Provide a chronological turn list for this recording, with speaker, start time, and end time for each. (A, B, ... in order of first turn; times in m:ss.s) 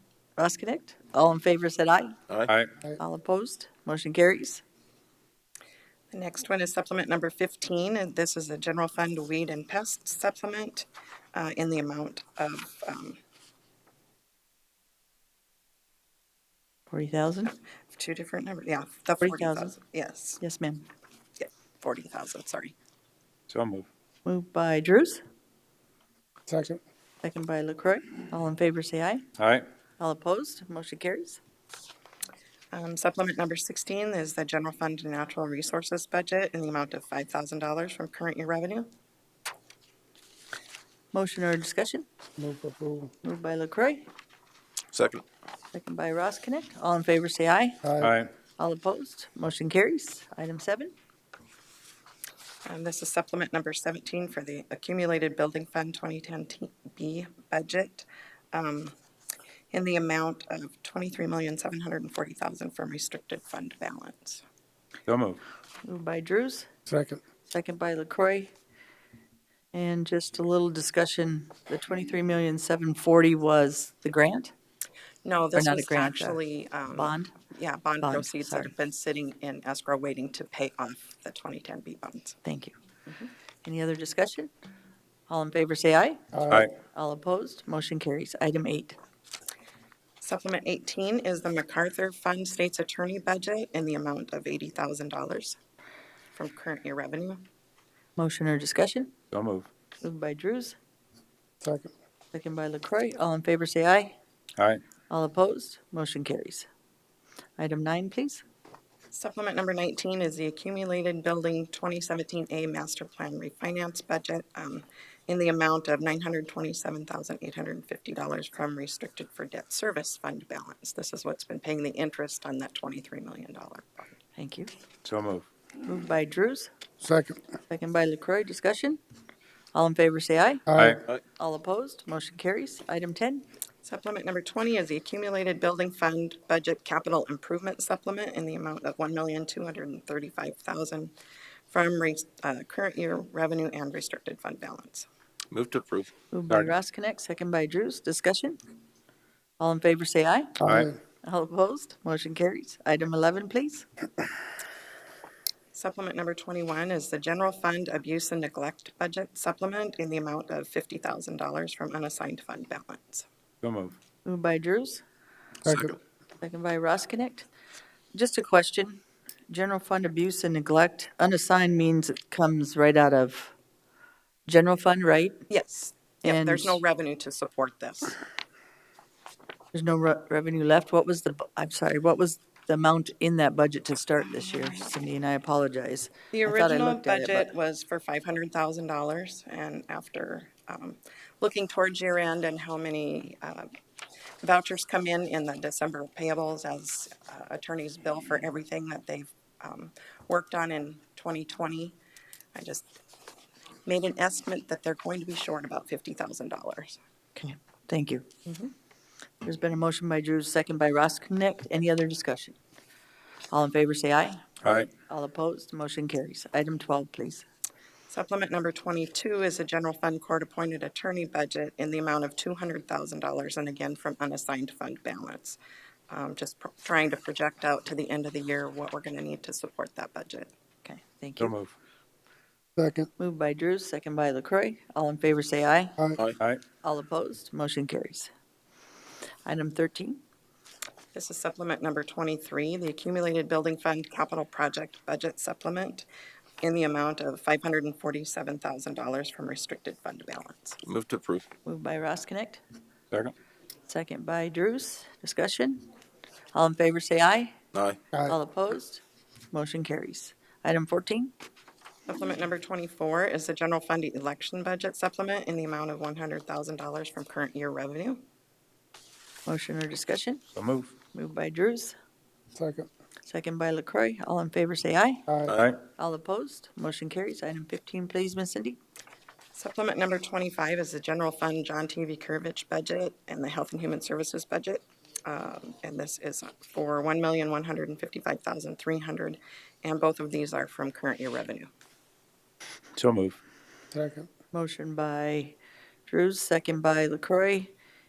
0:00.4-0:02.2 A
0:03.0-0:04.6 A
0:06.1-0:13.2 B
0:16.9-0:17.5 A
0:17.9-0:20.4 B
0:19.2-0:19.7 A
0:20.4-0:20.9 A
0:21.4-0:22.7 B
0:23.5-0:23.9 C
0:24.2-0:25.2 A
0:26.5-0:26.8 D
0:27.2-0:29.2 A
0:29.4-0:29.6 C
0:30.0-0:31.4 A
0:32.7-0:38.9 B
0:41.1-0:42.0 A
0:42.4-0:43.1 D
0:43.2-0:44.1 A
0:44.9-0:45.2 E
0:45.7-0:47.8 A
0:47.8-0:48.1 D
0:48.0-0:48.3 C
0:48.6-0:50.9 A
0:52.6-0:58.9 B
0:59.7-1:04.4 B
1:05.1-1:05.4 C
1:05.8-1:06.7 A
1:06.9-1:07.2 D
1:07.5-1:08.5 A
1:09.7-1:14.5 A
1:15.2-1:22.4 B
1:15.5-1:16.4 A
1:16.9-1:17.3 A
1:18.0-1:18.7 A
1:22.4-1:22.7 A
1:23.6-1:24.5 A
1:25.3-1:26.3 A
1:26.3-1:26.7 D
1:26.8-1:29.0 A
1:30.2-1:35.6 B
1:36.3-1:37.4 B
1:38.2-1:39.1 A
1:39.3-1:39.7 C
1:40.0-1:40.8 A
1:41.6-1:41.9 D
1:42.3-1:44.2 A
1:44.6-1:44.8 C
1:45.1-1:46.7 A
1:47.6-1:48.4 A
1:49.1-2:04.1 B
2:04.4-2:04.7 A
2:05.0-2:05.4 C
2:05.8-2:06.7 A
2:07.0-2:07.4 D
2:07.7-2:09.0 A
2:09.7-2:10.7 A
2:10.7-2:11.0 D
2:10.8-2:11.0 C
2:11.4-2:13.4 A
2:13.8-2:21.1 B
2:21.7-2:25.1 B
2:25.5-2:26.1 E
2:26.3-2:28.6 A
2:29.6-2:30.6 A
2:30.6-2:30.9 C
2:30.6-2:30.9 D
2:31.2-2:33.9 A
2:35.7-2:43.2 B
2:43.6-2:43.9 C
2:44.2-2:45.0 A
2:45.6-2:45.9 D
2:45.7-2:45.9 E
2:46.4-2:47.4 A
2:48.1-2:49.0 A
2:49.5-2:53.5 A
2:54.5-2:55.4 A
2:55.5-2:58.2 B
2:56.2-2:56.8 A
2:59.7-3:07.5 A
3:04.4-3:04.8 B
3:06.3-3:13.7 B
3:14.4-3:22.0 B
3:22.5-3:22.9 B
3:23.8-3:27.0 B
3:27.4-3:28.2 A
3:28.5-3:28.7 B
3:29.4-3:32.6 A
3:33.5-3:37.4 A
3:38.1-3:45.6 B
3:46.1-3:50.5 B
3:50.8-3:51.5 A
3:51.4-3:51.7 C
3:52.8-3:53.1 D
3:53.2-3:56.0 A
3:56.8-3:58.3 A
3:59.4-4:00.2 A
4:01.1-4:06.0 B
4:06.6-4:10.8 B
4:10.8-4:11.4 E
4:11.6-4:12.6 A
4:13.9-4:15.9 A
4:16.5-4:17.5 A
4:17.7-4:18.0 E
4:18.2-4:21.3 A
4:22.1-4:28.2 B
4:29.4-4:30.4 A
4:30.5-4:30.9 C
4:31.1-4:31.9 A
4:32.5-4:32.9 D
4:33.2-4:35.2 A
4:35.3-4:35.6 D
4:35.5-4:35.8 C
4:36.0-4:38.8 A
4:39.5-4:51.7 B
4:53.0-4:53.4 C
4:53.9-4:54.3 D
4:54.5-4:55.6 A
4:56.1-4:57.7 A